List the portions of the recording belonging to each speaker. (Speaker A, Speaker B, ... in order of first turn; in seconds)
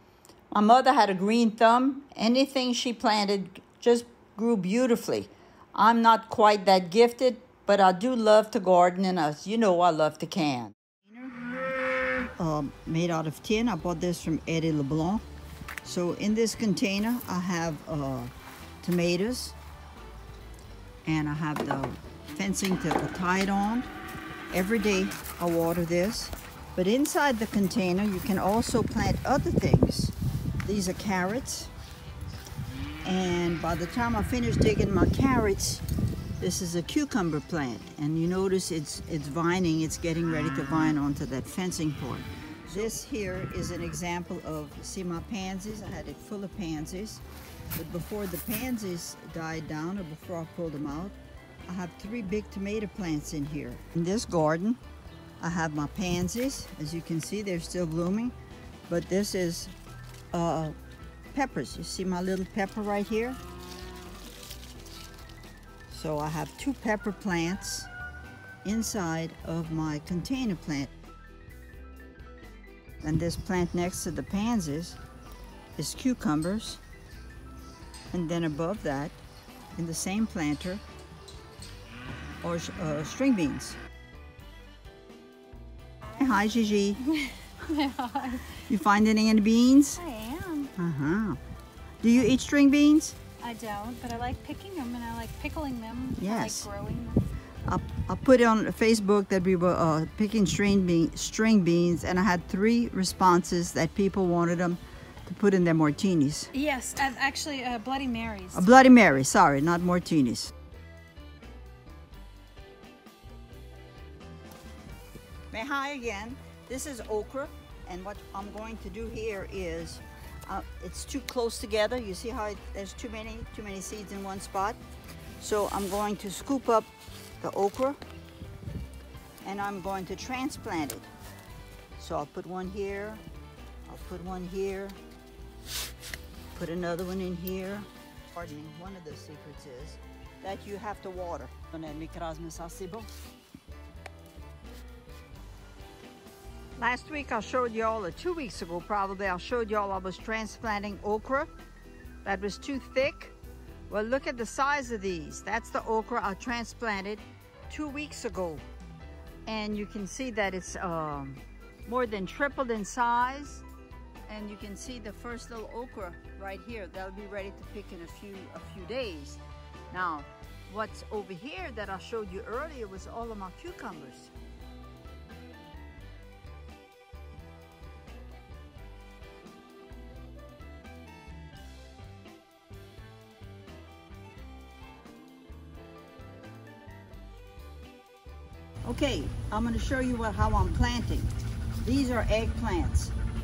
Speaker A: 0.5-11.4, 12.4-15.2, 15.8-18.3, 18.8-19.6, 21.0-23.9, 24.5-31.7, 33.0-35.8, 36.4-47.2, 47.7-54.8, 55.4-58.3, 58.9-59.7, 60.3-60.8, 61.3-63.4, 65.9-67.9, 68.6-70.9, 73.0-75.0, 75.8-76.8, 78.1-79.2, 79.8-80.8, 82.4-83.8, 86.2-87.0, 88.5-90.0, 90.7-91.4, 92.0-93.2, 96.2-96.7, 97.7-106.5, 108.5-110.5, 115.5-124.8, 125.4-126.9, 127.4-128.0, 129.4-131.1, 132.0-133.2, 133.8-135.0, 136.5-143.1, 146.8-151.5, 152.2-153.3, 153.9-158.6, 159.4-163.6, 164.3-174.3, 188.8-193.1
Speaker B: 87.1-88.5, 90.0-90.7, 93.4-97.2, 106.5-108.7